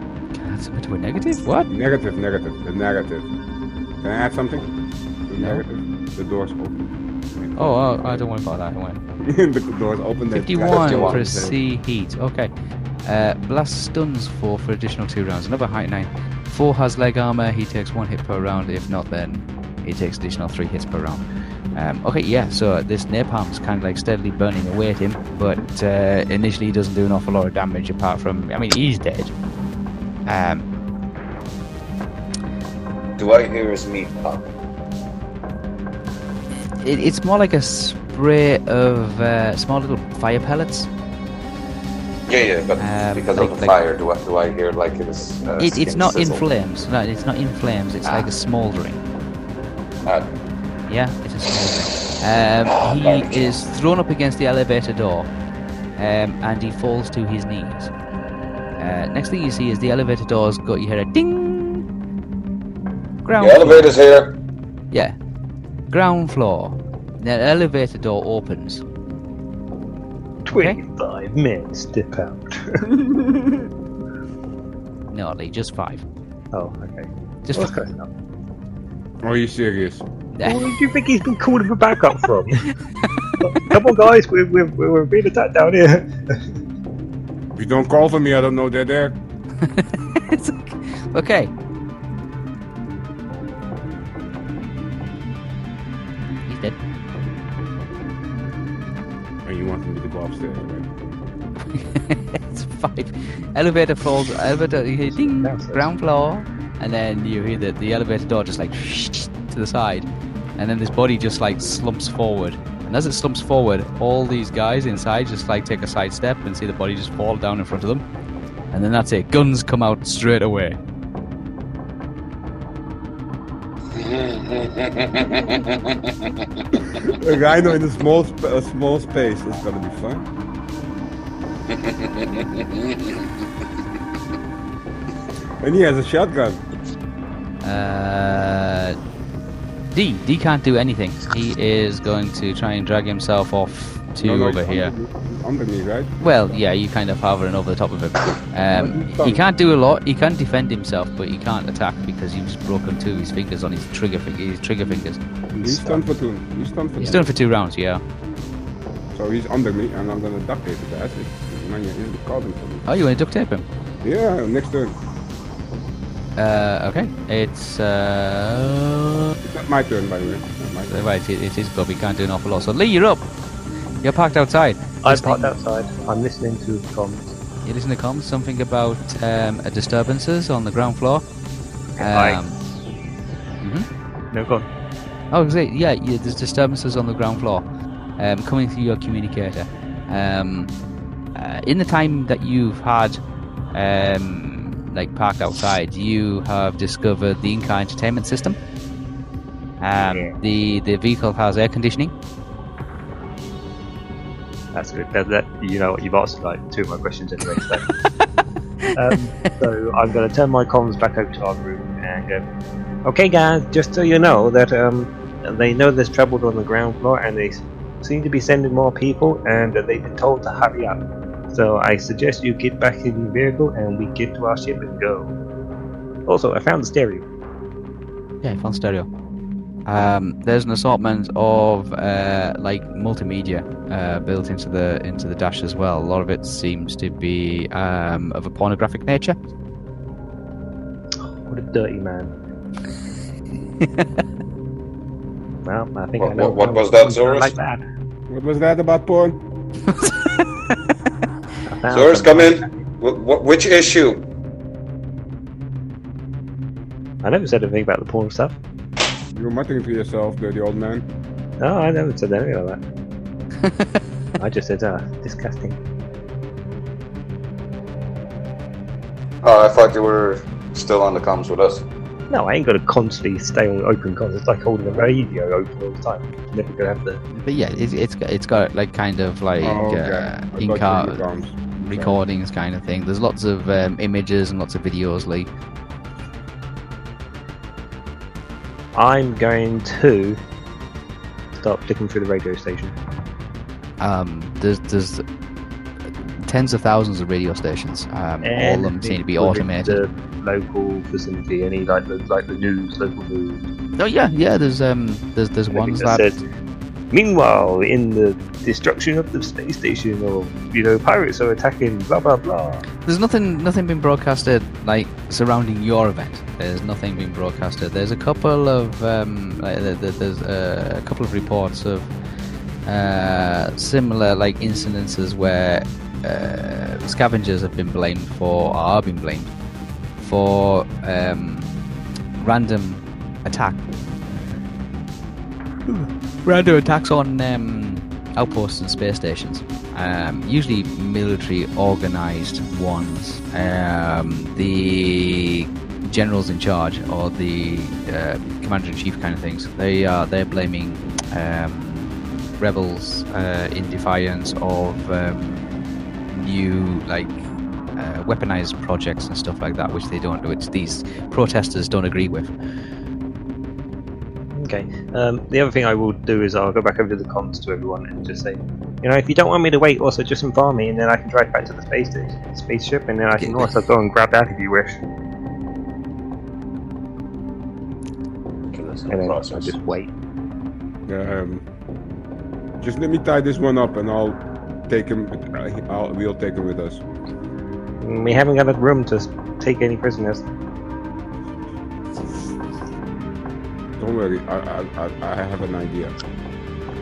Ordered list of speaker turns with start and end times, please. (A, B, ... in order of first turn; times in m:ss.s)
0:00.3-0:01.7 A
0:01.7-0:03.3 B
0:04.0-0:04.7 B
0:05.3-0:06.8 B
0:07.3-0:08.2 B
0:07.6-0:09.0 A
0:09.2-0:11.6 B
0:10.3-0:12.5 A
0:10.6-0:11.2 C
0:13.0-0:21.2 A
0:21.7-0:29.3 A
0:30.3-0:30.6 A
0:33.2-0:34.5 C
0:36.7-0:40.9 A
0:42.3-0:46.4 C
0:42.8-0:43.8 A
0:45.6-0:49.0 A
0:48.0-0:48.3 C
0:50.0-0:50.3 C
0:50.9-0:55.3 A
0:52.6-0:53.7 C
0:56.0-0:57.9 A
0:58.8-1:01.8 A
1:03.2-1:04.0 A
1:03.4-1:04.4 C
1:04.9-1:05.2 A
1:05.9-1:08.8 A
1:10.4-1:12.9 D
1:10.5-1:10.8 A
1:15.1-1:16.0 A
1:16.5-1:18.1 D
1:17.4-1:17.8 A
1:19.2-1:20.0 B
1:20.3-1:20.7 A
1:20.4-1:22.6 D
1:23.4-1:26.4 D
1:27.5-1:29.2 B
1:29.6-1:31.5 A
1:36.5-1:36.8 A
1:39.4-1:40.9 B
1:41.7-1:50.0 A
1:45.0-1:45.8 D
1:50.6-1:58.0 A
1:58.7-2:00.8 A
2:03.9-2:07.1 C
2:07.1-2:10.3 B
2:11.7-2:13.3 C
2:15.6-2:16.6 B
2:17.6-2:19.0 A
2:19.9-2:24.9 A
2:24.2-2:26.6 B
2:26.2-2:36.1 A
2:28.7-2:29.4 B
2:35.5-2:37.3 B
2:37.0-2:38.0 A
2:39.1-2:42.8 B
2:42.9-2:43.6 A
2:44.0-2:44.9 B
2:46.4-2:49.3 A
2:49.4-2:51.0 B
2:50.9-2:53.3 A
2:54.0-2:55.5 A
2:55.0-2:57.3 D
2:57.6-3:01.2 A
3:02.0-3:02.4 D
3:02.0-3:02.6 A
3:03.6-3:03.9 A
3:04.3-3:04.6 D
3:05.3-3:07.6 A
3:08.2-3:10.7 A
3:11.4-3:13.2 A
3:13.7-3:18.6 A
3:19.8-3:22.1 A
3:20.0-3:20.3 D
3:24.7-3:27.9 D
3:28.9-3:32.4 D
3:33.0-3:41.0 D
3:41.5-3:45.3 D
3:46.2-3:47.2 D
3:48.4-3:49.1 A
3:49.8-3:59.4 A
4:01.3-4:02.3 D
4:03.8-4:04.2 A
4:05.6-4:07.8 D
4:06.2-4:07.5 C
4:08.3-4:09.4 B
4:09.9-4:10.8 A
4:11.7-4:12.7 D
4:11.9-4:14.3 C
4:17.2-4:18.5 D
4:19.3-4:21.0 B
4:21.6-4:22.8 D
4:24.4-4:25.8 D
4:29.4-4:31.8 C
4:32.3-4:37.2 D
4:37.3-4:41.2 A
4:39.6-4:42.2 B
4:41.8-4:45.5 A
4:49.0-4:50.4 D
4:51.6-4:52.9 D
4:54.0-4:55.2 A
4:56.4-5:00.0 A
4:58.4-5:03.6 D
5:04.0-5:06.3 A
5:05.7-5:06.4 D
5:07.1-5:12.8 D
5:13.0-5:22.1 A
5:22.8-5:29.5 A
5:30.2-5:31.7 A
5:32.4-5:33.8 A
5:35.8-5:55.6 A
5:56.3-6:02.5 A
6:04.5-6:15.0 D
6:13.4-6:13.7 A
6:18.7-6:19.7 C
6:19.1-6:20.1 D
6:21.1-6:21.6 B
6:22.8-6:27.0 B
6:28.0-6:30.4 D
6:34.0-6:36.1 B